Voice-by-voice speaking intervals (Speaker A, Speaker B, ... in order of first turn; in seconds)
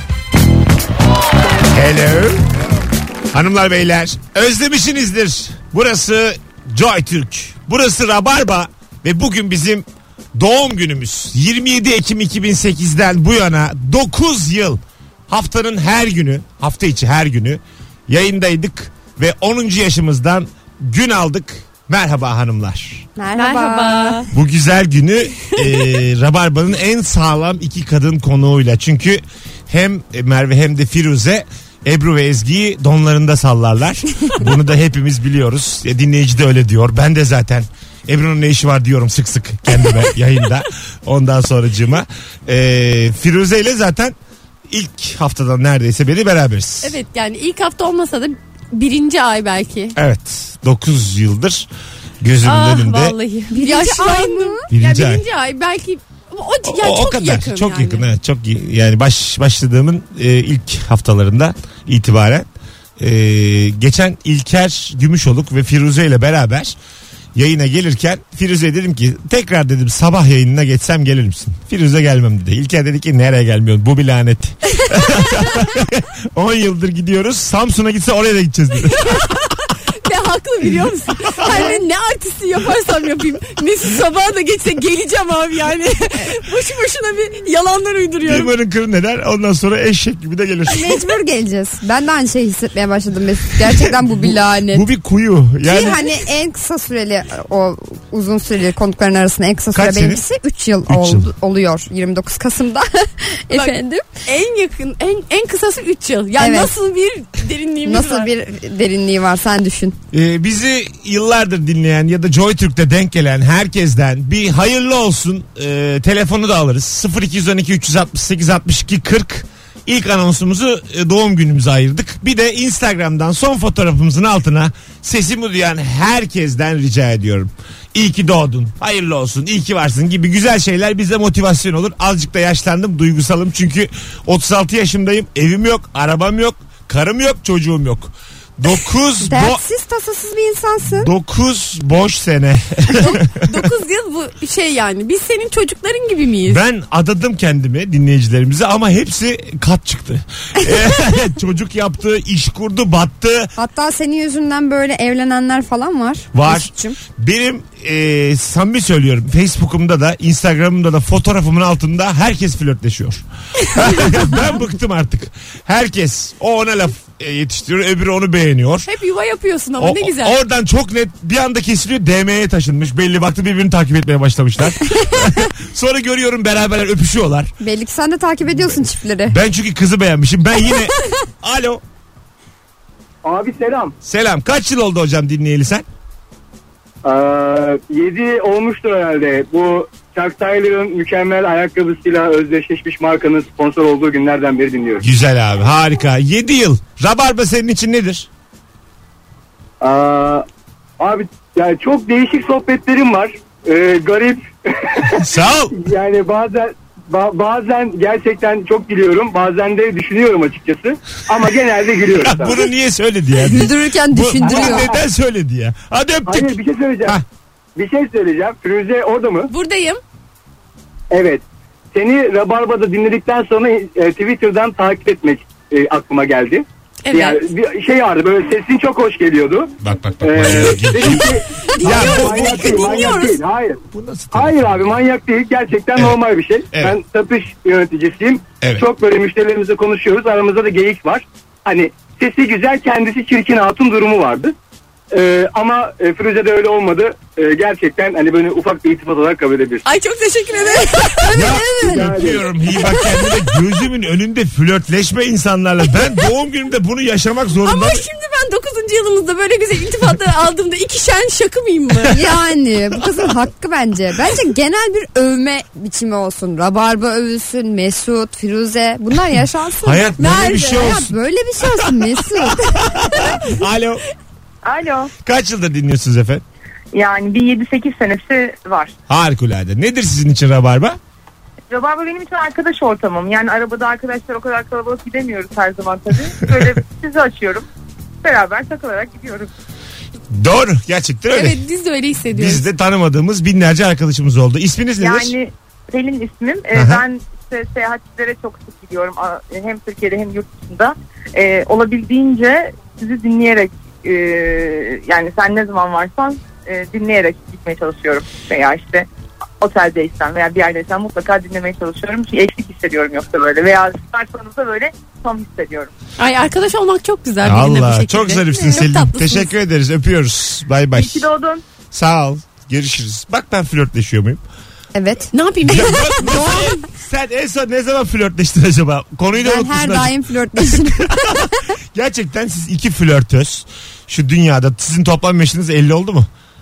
Speaker A: 1.7-2.4, 3.3-23.1, 24.3-44.1, 44.7-47.0, 50.0-51.7, 52.2-53.1, 54.7-55.2, 56.6-62.5, 63.0-66.8, 67.3-79.2, 81.4-81.6, 88.2-90.9, 93.7-96.1, 99.7-100.2, 100.9-101.3, 110.1-139.6, 140.9-143.6, 146.5-153.5, 156.3-168.9, 169.8-177.5, 179.3-181.8, 184.0-185.8, 195.0-198.3, 205.2-205.8, 212.2-217.2, 229.8-233.2, 233.9-235.0, 251.3-258.0, 269.8-271.1, 272.8-274.0, 275.2-276.4, 279.1-281.0, 290.3-291.6, 292.3-295.3, 296.7-297.0, 317.4-321.3, 321.9-324.4, 325.6-336.3
Speaker B: 23.1-24.2, 53.5-54.7, 81.5-81.8, 90.7-94.8, 95.6-104.1, 106.4-106.7, 107.8-110.0, 139.2-141.1, 153.6-157.0, 177.6-179.3, 213.4-214.9, 251.2-252.2, 262.1-272.9, 324.9-325.3, 329.4-331.5
Speaker C: 23.3-24.3, 46.8-50.0, 52.4-58.0, 78.9-88.5, 103.5-108.3, 142.9-146.6, 168.8-170.4, 219.5-220.0, 227.0-227.4, 231.0-233.4, 249.8-251.6, 257.6-262.2, 270.2-270.9, 291.3-292.6, 316.2-319.5, 325.3-326.7
Speaker D: 183.2-183.9, 187.0-195.0, 199.8-200.4, 201.0-212.6, 214.4-215.0, 216.3-217.2, 217.8-219.5, 221.1-221.4, 221.9-233.8, 234.3-244.5, 245.1-249.8, 251.8-252.4
Speaker E: 274.6-275.1, 276.9-278.9, 281.7-287.6, 288.2-289.5, 295.0-309.1, 309.6-315.9, 320.9-321.6